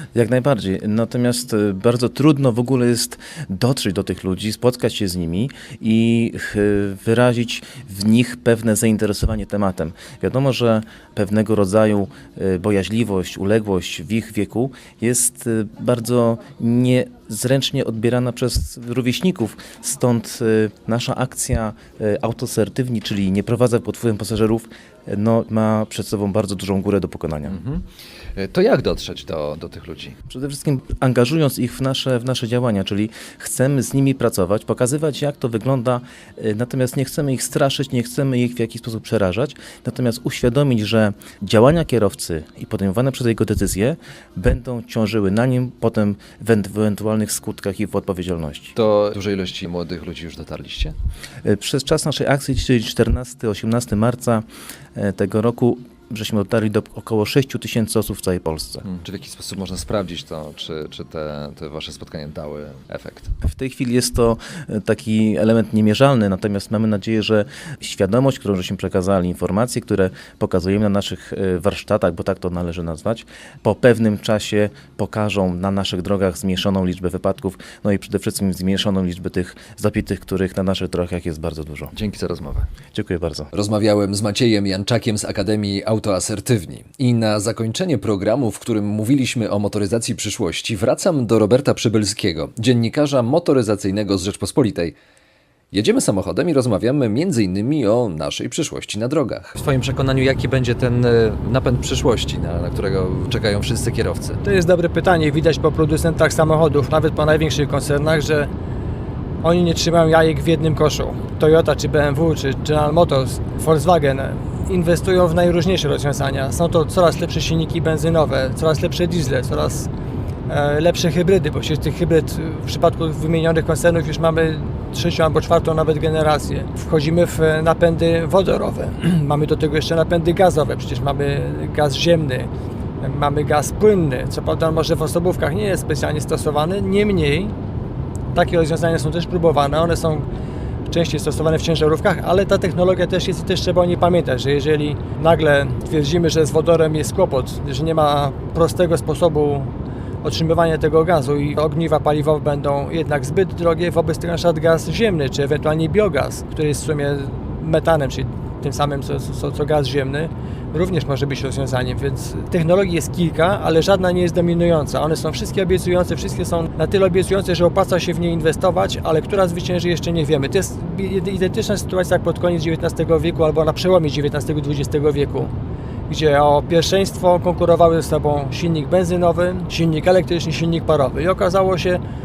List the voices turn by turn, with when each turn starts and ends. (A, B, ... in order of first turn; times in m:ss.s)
0:00.2-0:27.6 A
0:27.5-0:30.2 B
0:30.3-0:48.7 A
0:48.7-0:51.0 B
0:51.4-0:58.8 A
0:58.8-1:03.3 B
1:03.4-1:21.9 A
1:21.9-1:22.7 B
1:22.9-1:23.5 A
1:23.5-1:35.0 B
1:35.7-1:44.4 B
1:44.4-1:48.5 C
1:49.4-1:59.9 C
2:00.5-2:12.5 C
2:13.0-2:17.5 C
2:18.3-2:20.3 C
2:20.9-2:29.7 C
2:30.2-2:55.5 C
2:56.1-3:02.0 C